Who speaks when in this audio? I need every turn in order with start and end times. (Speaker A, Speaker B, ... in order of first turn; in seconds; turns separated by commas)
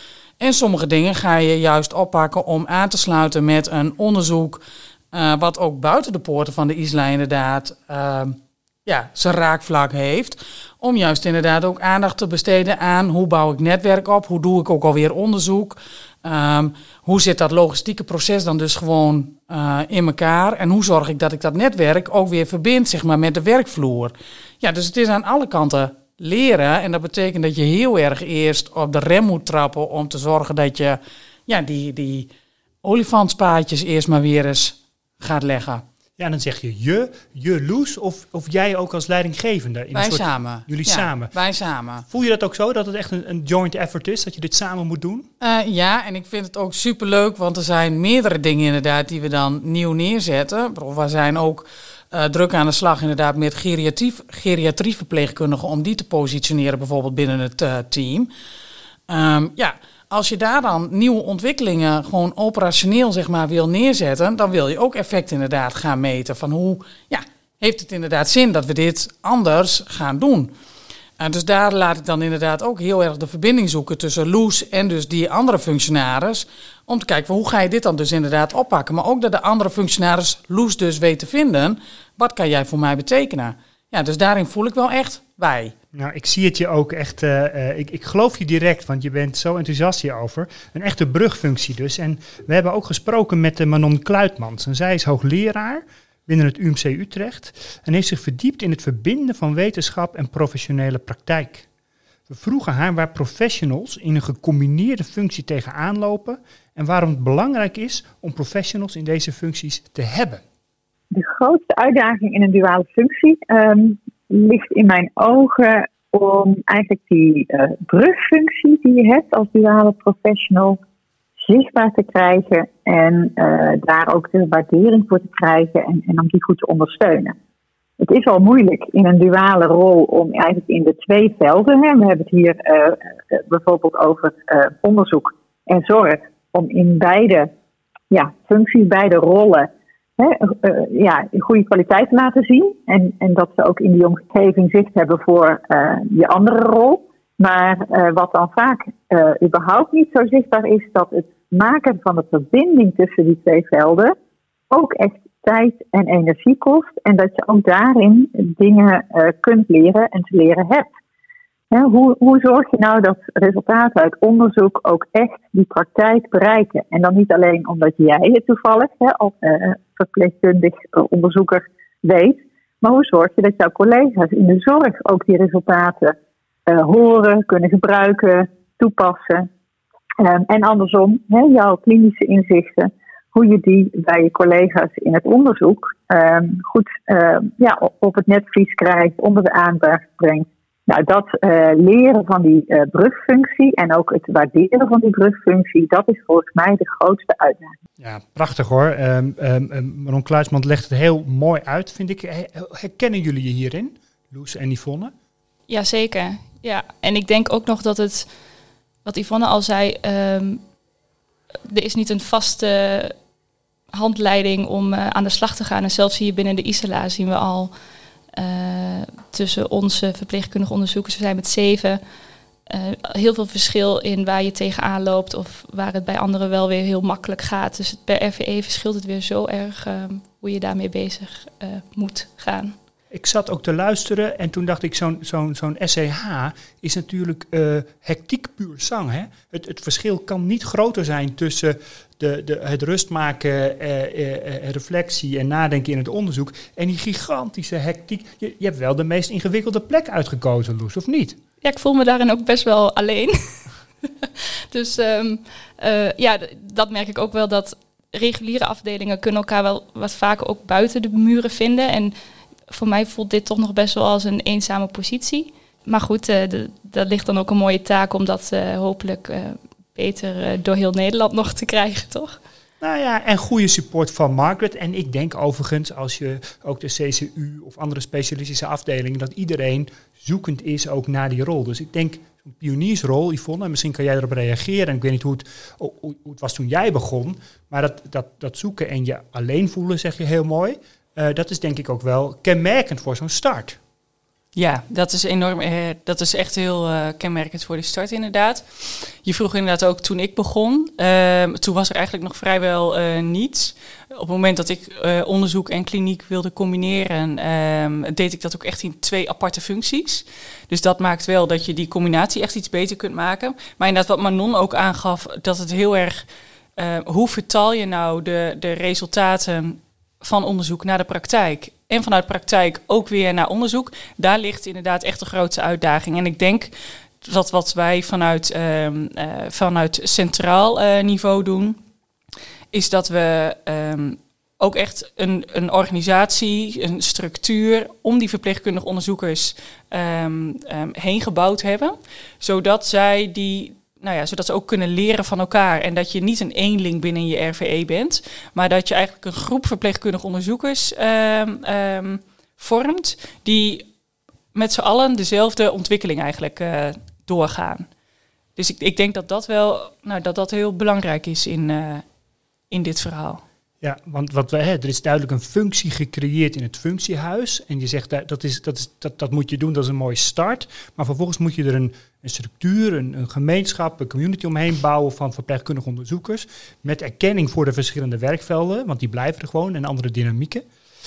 Speaker A: 0.4-32.3, Speaker A: 32.8-35.8, Speaker B: 36.2-41.3, Speaker A: 39.9-42.0, Speaker B: 42.1-45.3, Speaker A: 45.4-58.3, Speaker A: 59.1-70.5, Speaker A: 71.2-85.7, Speaker B: 85.9-101.7, Speaker B: 102.3-110.4, Speaker C: 111.1-120.8, Speaker C: 121.4-127.3, Speaker C: 128.0-137.5, Speaker C: 138.1-154.1, Speaker C: 154.7-160.9, Speaker C: 161.7-176.2, Speaker C: 176.7-179.5, Speaker C: 180.2-197.7, Speaker B: 198.0-205.1, Speaker D: 205.7-208.3, Speaker D: 209.0-210.6, Speaker D: 211.7-213.1, Speaker D: 213.9-217.7, Speaker D: 218.3-222.0, Speaker D: 222.7-232.7, Speaker B: 233.1-251.4, Speaker D: 251.6-253.4, Speaker D: 254.0-262.1, Speaker D: 262.7-272.4, Speaker B: 272.8-293.8, Speaker E: 294.5-316.2, Speaker E: 316.8-331.8, Speaker E: 332.7-353.9, Speaker E: 354.5-357.9, Speaker E: 358.6-362.0, Speaker E: 362.7-363.4, Speaker B: 363.8-380.6